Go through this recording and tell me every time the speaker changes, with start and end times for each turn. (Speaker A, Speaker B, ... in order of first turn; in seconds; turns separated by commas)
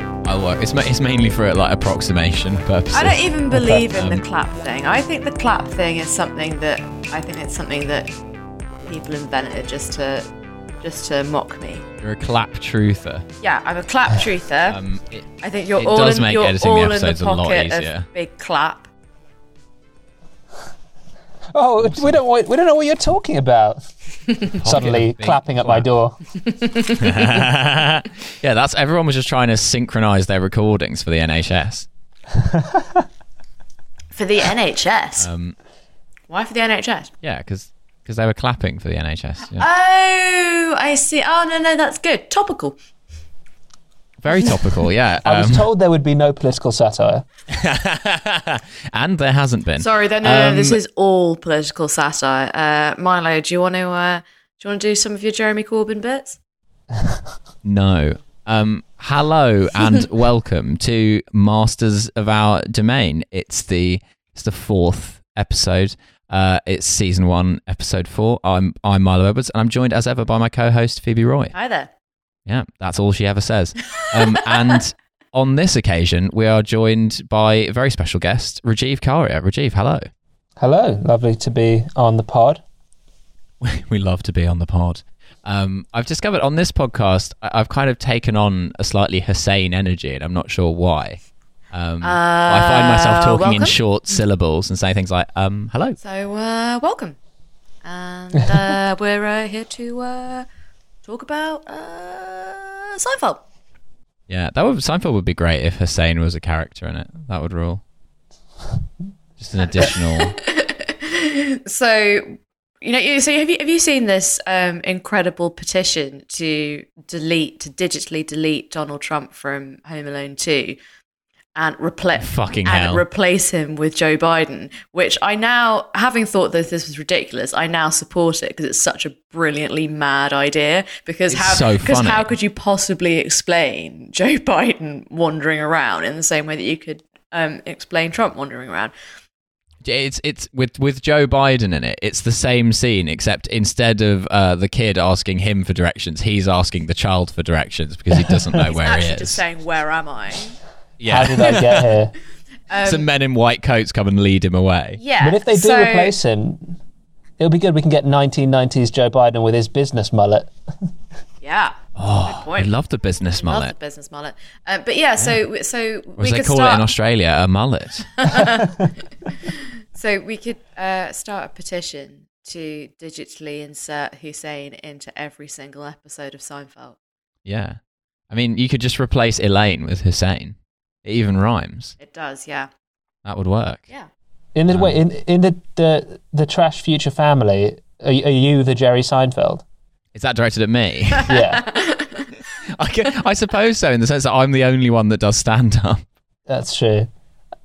Speaker A: 0.2-4.2, Speaker B: 2.9-8.1, Speaker B: 8.8-10.3, Speaker B: 10.8-11.8, Speaker A: 12.0-13.2, Speaker B: 13.4-14.8, Speaker A: 14.7-18.1, Speaker B: 15.4-18.9, Speaker C: 21.5-23.9, Speaker A: 21.8-22.1, Speaker A: 24.6-25.9, Speaker C: 24.6-26.2, Speaker B: 26.4-27.4, Speaker A: 27.0-31.9, Speaker C: 32.4-33.0, Speaker B: 34.1-35.3, Speaker A: 35.2-35.6, Speaker B: 36.3-37.1, Speaker A: 37.2-39.7, Speaker B: 39.6-42.8, Speaker A: 44.2-45.7, Speaker C: 45.2-47.2, Speaker A: 47.5-50.8, Speaker B: 49.8-56.4, Speaker A: 57.6-71.5, Speaker B: 71.5-71.9, Speaker A: 72.5-80.1, Speaker C: 80.6-82.6, Speaker A: 83.6-96.0, Speaker B: 92.0-93.8, Speaker B: 96.0-97.2, Speaker B: 97.8-100.5, Speaker B: 101.0-103.4, Speaker A: 104.3-107.8, Speaker A: 109.4-110.4, Speaker B: 109.6-120.8, Speaker B: 121.6-138.9, Speaker A: 122.2-123.0, Speaker A: 131.3-132.3, Speaker A: 139.8-149.4, Speaker B: 148.6-150.6, Speaker A: 151.0-151.9, Speaker C: 151.1-152.1, Speaker B: 152.7-153.1, Speaker A: 152.8-155.0, Speaker B: 155.0-156.1, Speaker C: 155.2-156.8, Speaker C: 157.4-160.5, Speaker B: 161.4-162.7, Speaker A: 162.0-163.7, Speaker B: 163.4-166.8, Speaker A: 166.2-168.1, Speaker B: 168.2-177.0, Speaker A: 177.4-177.8, Speaker A: 178.3-181.9, Speaker B: 182.0-182.7, Speaker A: 183.2-183.8, Speaker C: 184.6-189.6, Speaker A: 184.7-185.0, Speaker A: 190.2-191.3, Speaker B: 191.2-192.3, Speaker C: 191.3-191.6, Speaker A: 192.8-196.0, Speaker C: 196.5-197.1